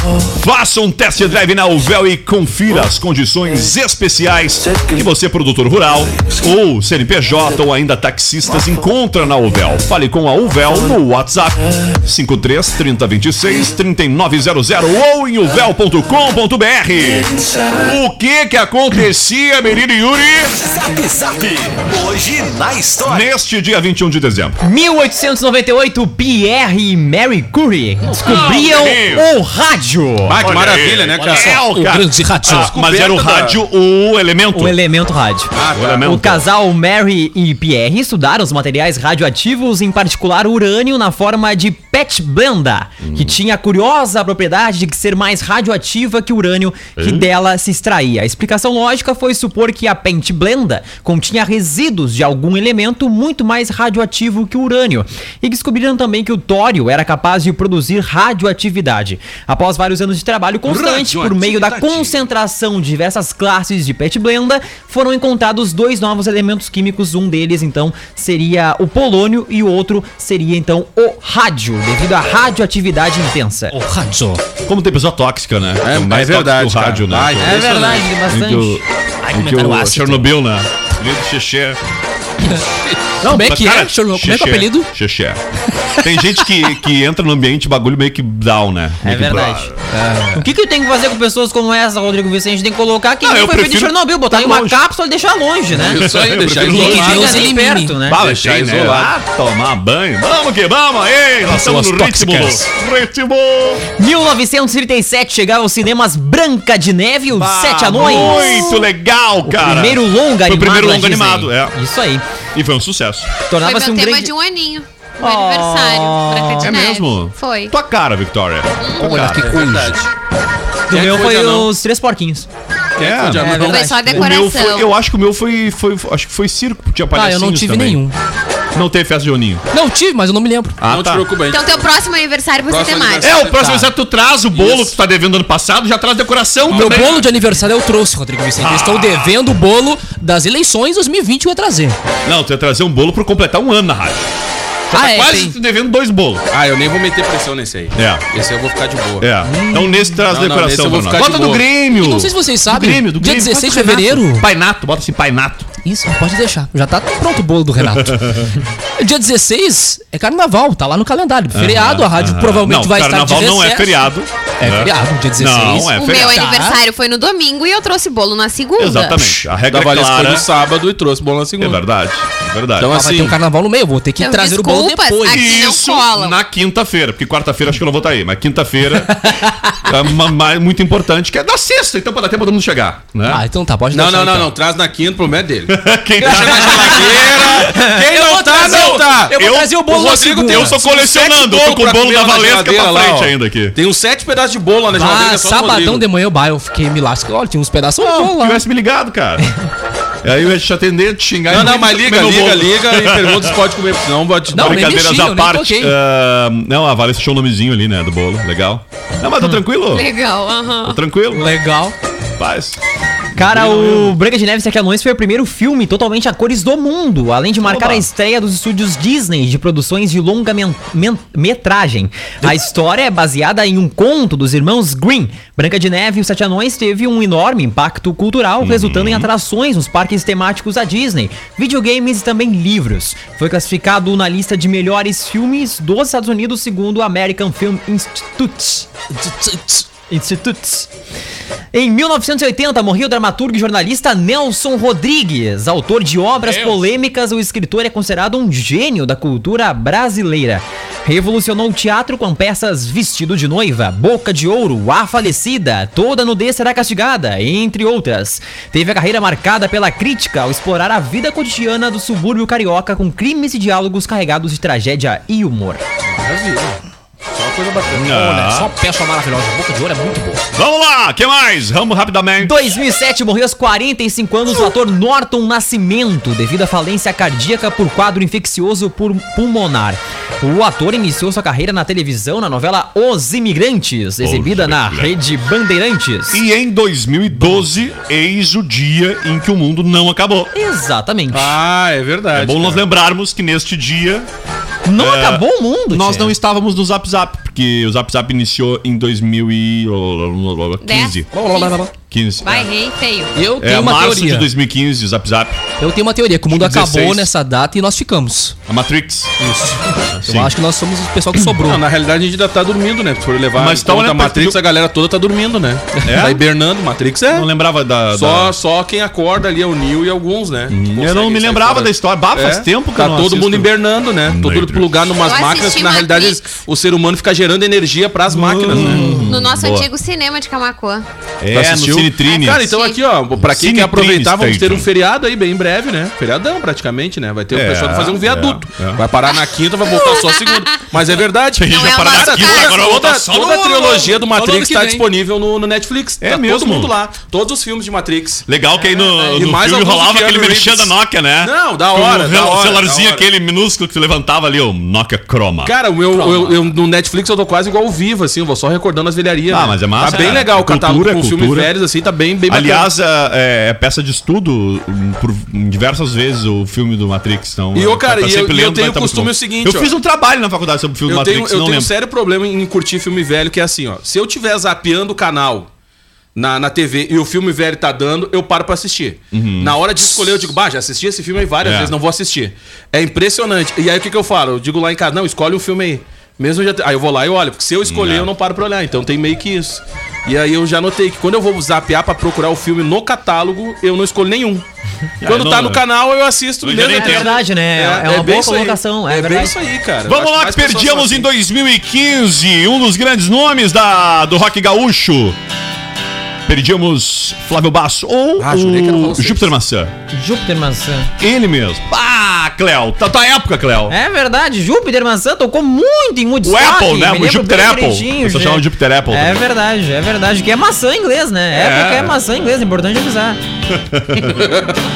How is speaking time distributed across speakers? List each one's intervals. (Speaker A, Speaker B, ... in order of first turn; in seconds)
Speaker A: 0.3-20.5, 23.0-24.6, 28.2-29.3, 30.4-34.8, 35.7-36.5, 43.0-43.4, 47.0-47.3, 74.7-81.8, 83.2-85.4, 86.0-89.8, 93.2-94.8, 96.0-97.2, 98.1-103.8, 107.3-111.8, 112.5-113.3, 116.6-119.7, 123.0-123.6, 124.1-128.1, 128.7-129.6, 130.8-131.3, 133.2-137.3, 138.6-139.3, 142.2-144.3, 144.9-146.4, 147.9-148.2, 149.2-155.7, 157.9-158.5, 161.5-166.5, 168.8-170.5, 171.6-172.9, 175.3-183.4, 185.7-187.7, 189.3-193.8, 198.0-199.5, 200.2-203.6, 204.6-210.1, 210.8-211.5, 212.4-212.8, 213.4-214.2, 217.6-218.1, 228.6-229.3, 268.0-268.7, 270.6-272.7, 284.2-285.1, 286.3-290.5, 292.3-294.3, 295.0-301.3, 302.1-302.7, 303.6-305.6, 306.5-307.3, 308.7-309.3, 310.1-310.6, 313.6-314.6, 316.1-316.4, 317.3-318.6, 320.7-323.7, 324.2-325.0, 328.3-329.9, 331.4-332.7, 333.4-334.9, 337.5-339.0, 341.6-344.2, 346.2-346.9, 348.5-355.7, 359.5-361.7, 362.5-371.9, 379.3-379.8, 381.6-381.9, 387.9-388.3, 395.2-395.8, 396.6-397.4, 400.1-405.4, 406.5-409.9, 411.2-413.9, 416.4-419.4, 423.7-424.4
Speaker B: 20.9-23.0
Speaker C: 24.6-30.4, 34.5-35.5, 36.0-73.8, 77.4-78.8, 89.0-89.7, 90.3-96.0, 96.7-98.2, 104.0-108.8, 109.5-112.2, 113.5-114.3, 115.2-116.7, 120.9-122.5, 123.4-124.2, 213.4-238.9, 240.1-240.9, 241.7-265.8, 272.4-286.4, 290.5-291.6, 294.9-296.4, 396.9-399.6, 410.1-411.1, 413.9-423.4
Speaker D: 30.3-31.8, 32.4-33.6, 35.5-36.1, 60.7-62.2, 75.8-78.1, 95.7-97.5, 98.2-99.1, 119.3-120.1, 120.9-121.7, 123.0-124.1, 130.9-131.9, 132.7-133.9, 134.6-134.9, 136.8-137.1, 146.5-149.3, 150.3-151.7, 169.7-171.8, 172.8-173.4, 183.9-196.1, 201.5-204.9, 266.1-266.8, 267.3-268.2, 291.3-292.8, 311.5-317.5, 318.1-329.2, 331.5-348.5, 349.2-353.3, 355.6-362.9, 367.7-369.9, 371.1-375.7, 376.4-394.6, 395.2-401.3, 408.4-409.5, 421.5-422.1, 424.4-424.7
Speaker E: 31.5-32.7, 73.7-74.4, 79.2-80.3, 83.2-84.9, 89.9-90.5, 96.7-98.0, 101.5-102.6, 119.0-120.0, 127.1-128.2, 129.7-130.8, 136.7-142.0, 144.9-145.6, 149.4-150.2, 151.9-154.5, 155.8-158.4, 159.0-164.0, 164.6-166.8, 172.9-175.6, 183.3-184.5, 187.6-190.8, 194.9-198.6, 204.5-205.9, 211.4-211.9, 239.2-239.8, 246.4-246.8, 268.1-270.5, 301.3-301.9, 303.3-304.5, 305.8-308.6, 309.4-311.8, 344.2-345.1
Speaker F: 113.6-117.7, 118.8-119.1, 123.6-124.9, 131.5-133.4, 165.9-169.3, 174.2-176.4, 209.9-211.0, 300.8-301.8, 302.4-303.3, 325.2-326.4, 329.2-331.0, 332.5-333.0, 341.7-342.8